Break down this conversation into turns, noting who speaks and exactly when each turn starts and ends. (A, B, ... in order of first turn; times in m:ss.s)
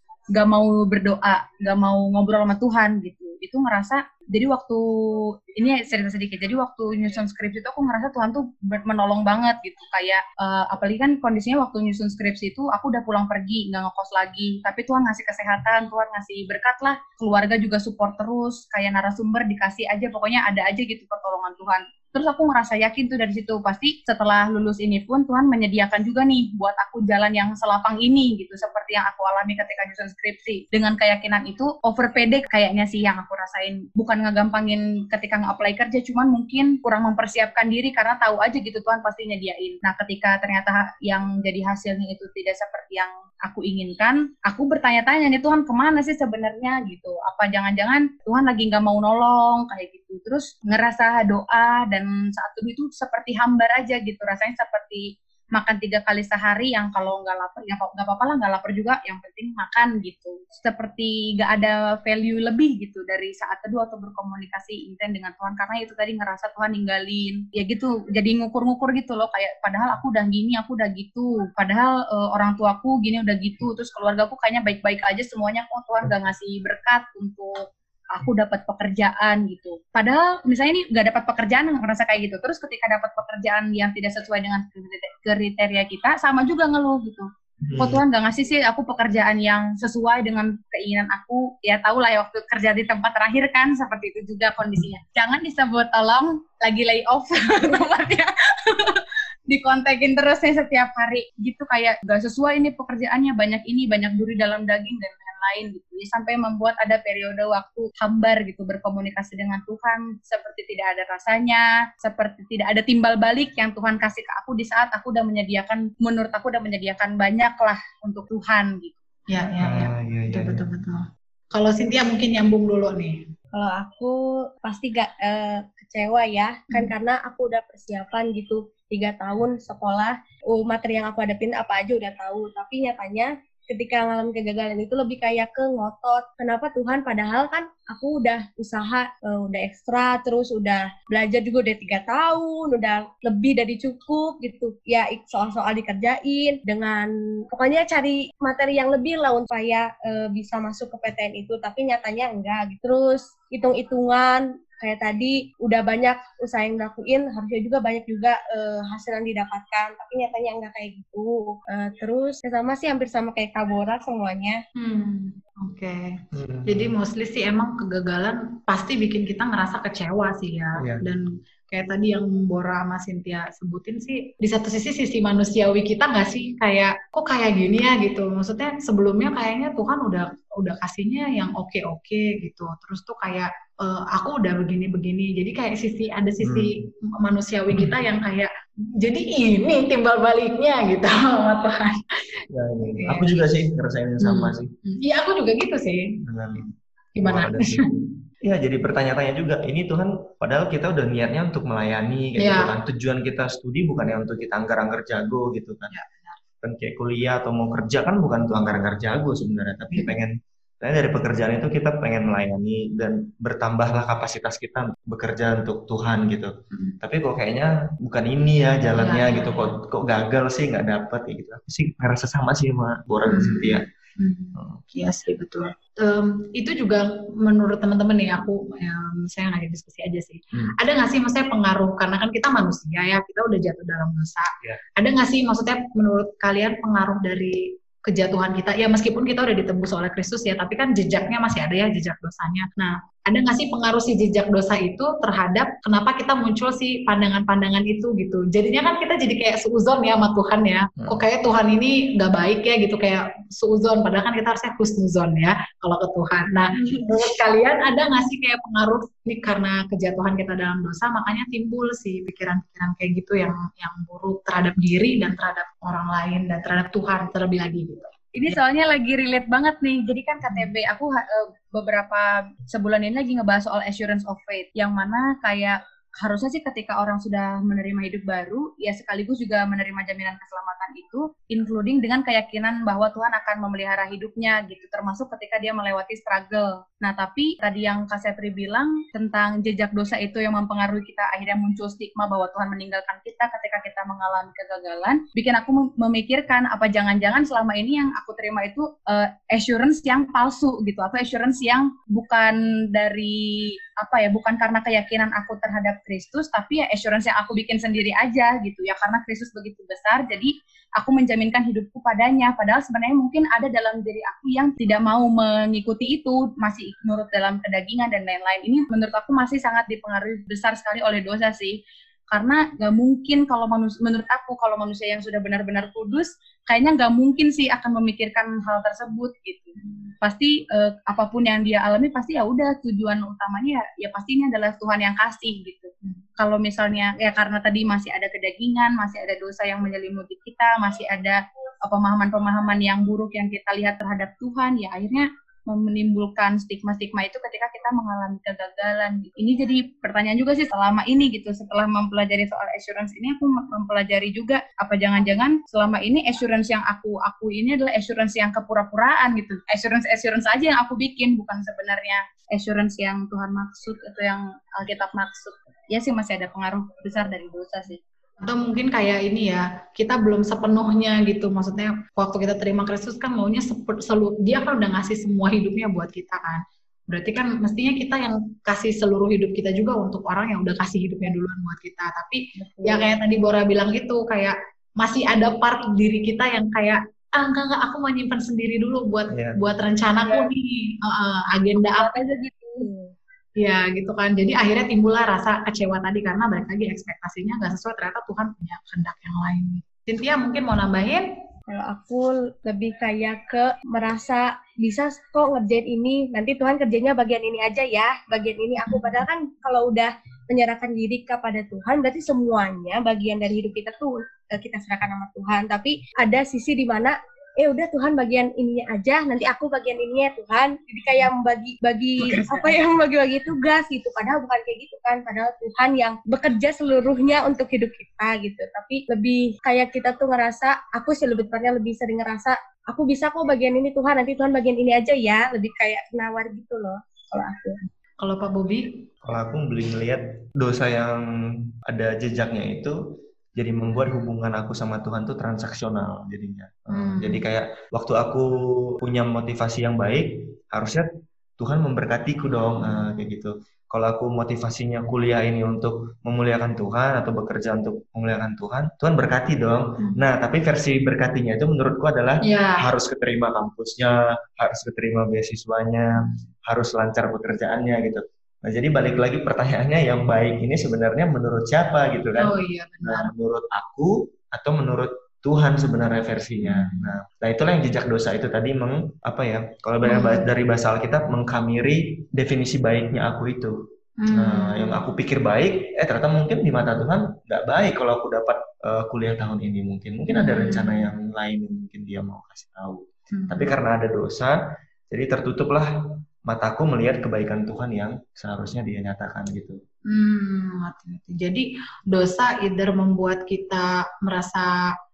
0:00.3-1:58.9 A
1:27.6-1:28.0 B
1:59.3-2:03.2 C
1:59.6-2:00.6 B
2:03.5-2:44.6 D
2:44.8-3:13.5 C
2:46.3-2:47.0 B
2:50.8-2:51.0 B
3:06.4-3:06.8 B
3:07.7-3:08.0 B
3:12.5-3:14.7 B
3:14.2-3:18.0 C
3:16.2-3:16.7 B
3:17.2-3:25.9 B
3:22.4-3:22.7 C
3:25.9-3:26.4 C
3:26.6-3:43.9 B
3:38.9-3:39.7 C
3:43.3-4:28.6 C
3:44.6-3:44.8 B
4:28.4-5:21.8 A
5:22.3-6:08.0 A
5:29.8-5:30.1 C
6:08.4-6:32.1 C
6:22.6-6:23.1 A
6:29.3-6:29.6 B
6:31.8-6:32.9 A
6:33.6-6:41.3 C
6:41.7-7:17.8 D
6:48.9-6:49.2 C
7:02.2-7:02.8 C
7:18.2-7:19.1 C
7:19.2-7:23.0 B
7:23.6-7:31.1 B
7:26.9-7:27.5 C
7:31.6-8:03.8 B
7:32.9-7:33.2 C
7:42.4-7:42.9 C
7:52.4-7:53.3 C
7:56.6-7:57.1 C
8:00.0-8:00.5 C
8:04.2-8:05.0 C
8:04.3-8:14.6 B
8:10.3-8:11.1 C
8:13.3-8:13.8 C
8:15.1-8:15.9 B
8:16.5-8:19.8 B
8:20.1-8:24.9 C